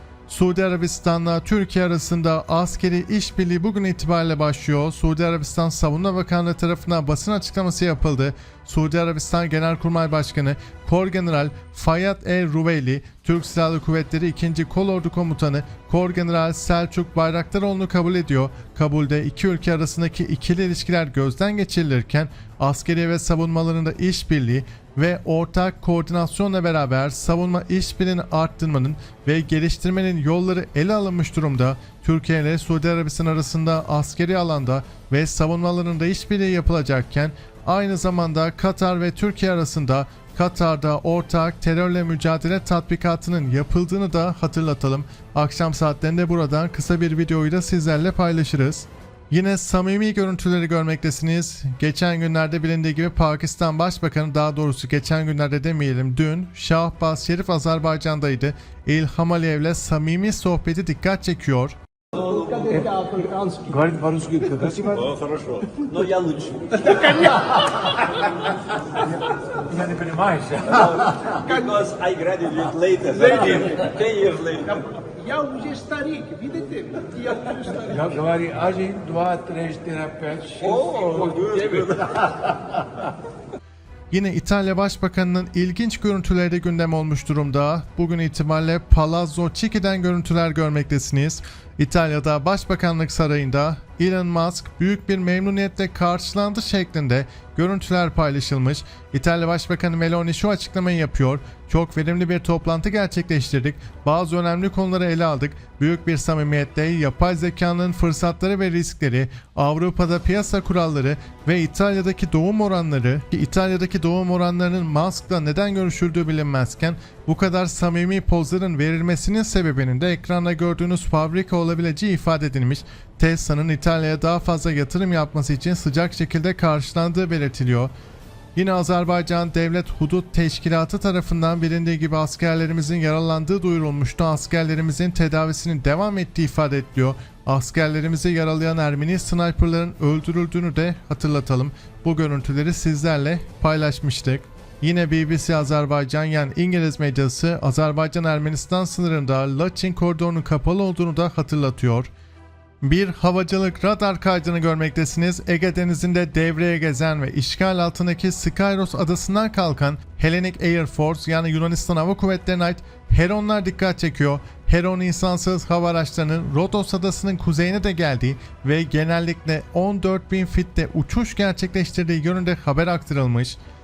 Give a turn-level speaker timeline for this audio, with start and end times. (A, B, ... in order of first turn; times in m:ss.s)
0:00.3-1:01.8 A
1:02.1-1:02.6 B
1:02.2-1:03.7 C
1:02.6-1:03.0 D
1:03.6-1:05.3 D
1:05.1-1:07.3 B
1:09.1-1:11.4 D
1:10.8-1:14.9 B
1:15.0-1:17.9 C
1:17.8-1:22.2 D
1:20.6-1:22.2 B
1:24.1-2:07.9 A
2:08.5-2:32.1 A
2:32.8-2:53.6 A